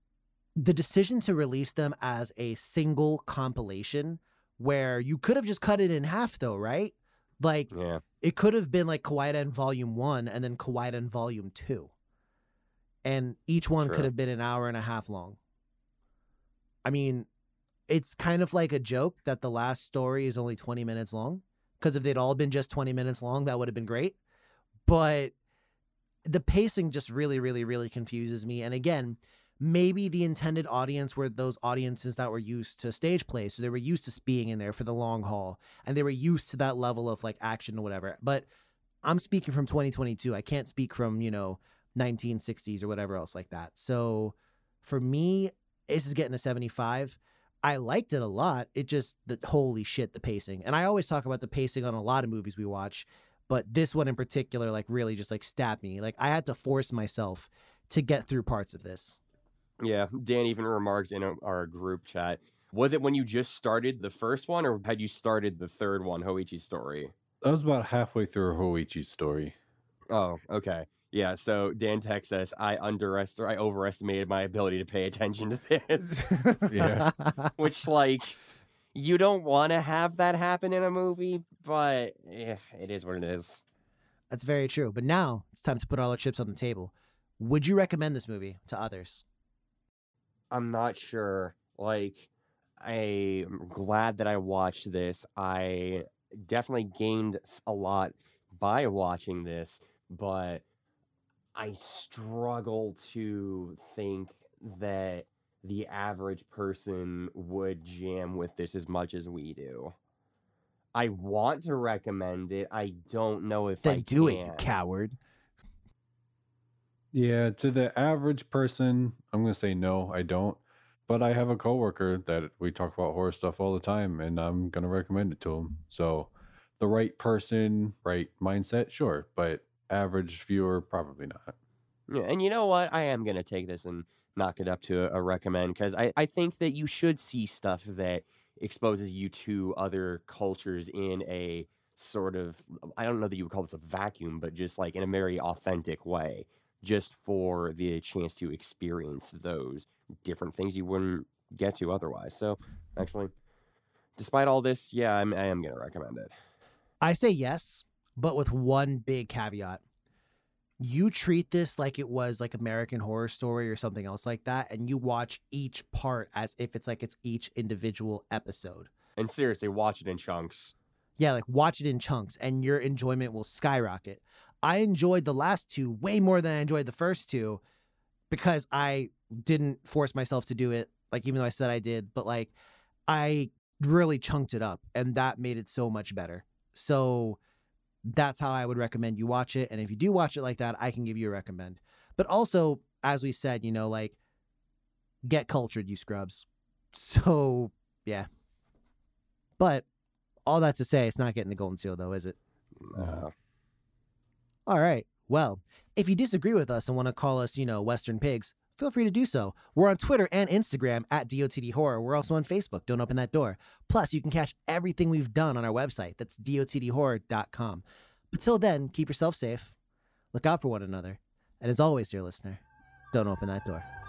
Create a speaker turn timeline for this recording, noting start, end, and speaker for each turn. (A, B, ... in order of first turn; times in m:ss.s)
0:00.6-0:11.9 A
0:07.7-0:08.0 B
0:13.0-0:15.4 A
0:13.8-0:14.1 B
0:16.8-0:17.3 A
0:17.9-0:24.2 A
0:24.8-0:25.3 A
0:26.3-0:38.4 A
0:39.0-0:59.2 A
0:59.8-1:07.1 B
1:07.4-1:09.5 C
1:10.1-1:16.5 B
1:16.4-1:17.5 A
1:16.7-1:17.1 C
1:17.6-1:18.4 B
1:18.9-1:23.6 B
1:24.3-1:29.2 A
1:30.5-1:32.3 B
1:32.8-1:40.6 B
1:41.5-1:49.9 B
1:50.9-1:54.7 B
1:53.8-1:55.2 A
1:57.1-2:06.3 C
2:06.8-2:11.5 C
2:12.1-2:33.3 B
2:34.2-2:36.3 B
2:37.0-2:39.8 A
2:40.8-2:48.9 A
2:49.2-2:50.7 B
2:51.2-2:57.6 A
2:58.3-3:02.5 A
3:03.1-3:07.4 A
3:08.1-3:14.2 A
3:15.2-3:18.3 A
3:19.6-3:19.8 A
3:20.4-3:22.4 A
3:22.8-3:23.3 B
3:23.0-3:23.2 C
3:24.6-3:39.8 A
3:40.3-3:42.6 A
3:43.1-3:43.9 A